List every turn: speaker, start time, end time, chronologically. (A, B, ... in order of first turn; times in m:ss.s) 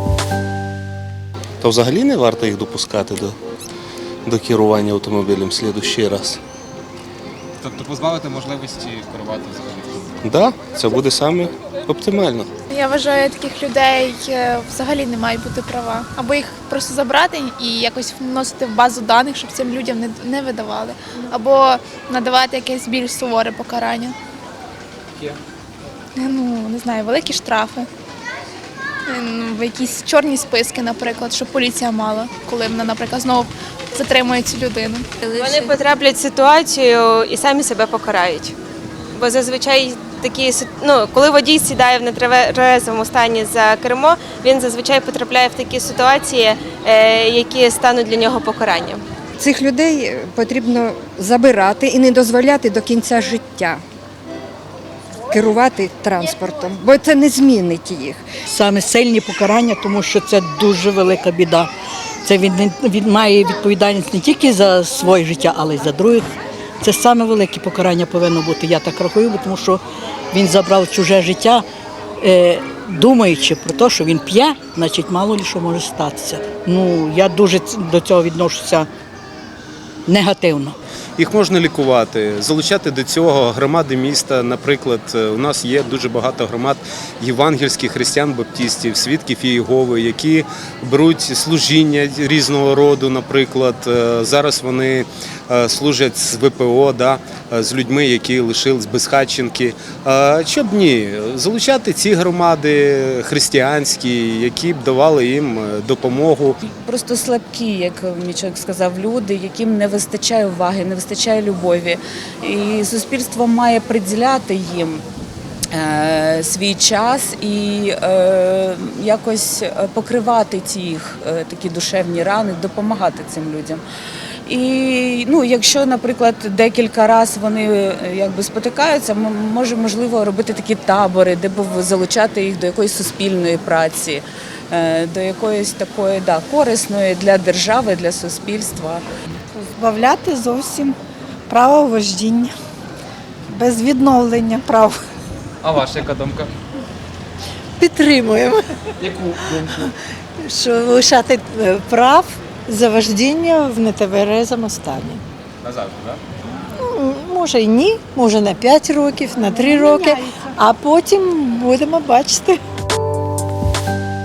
0:01.7-0:03.2 A
0:04.3-0:06.2 A
0:07.6-0:10.2 B
0:12.7-0:24.2 C
0:26.2-0:27.9 C
0:29.1-0:35.8 C
0:35.4-0:38.6 D
0:39.1-0:49.0 D
0:49.4-0:53.8 E
0:55.3-0:58.2 E
0:58.5-1:01.7 F
1:02.2-1:06.3 F
1:06.8-1:09.8 F
1:10.3-1:11.6 F
1:12.2-1:18.9 F
1:20.1-1:20.8 F
1:21.2-1:46.6 G
1:46.6-1:55.0 H
1:55.7-2:03.8 H
2:04.4-2:19.0 H
2:19.6-2:21.0 I
2:21.5-2:22.5 I
2:23.5-2:25.0 I
2:25.6-2:26.5 B
2:27.8-2:28.6 I
2:29.0-2:29.9 B
2:29.6-2:35.2 I
2:35.6-2:36.2 B
2:36.8-2:42.6 I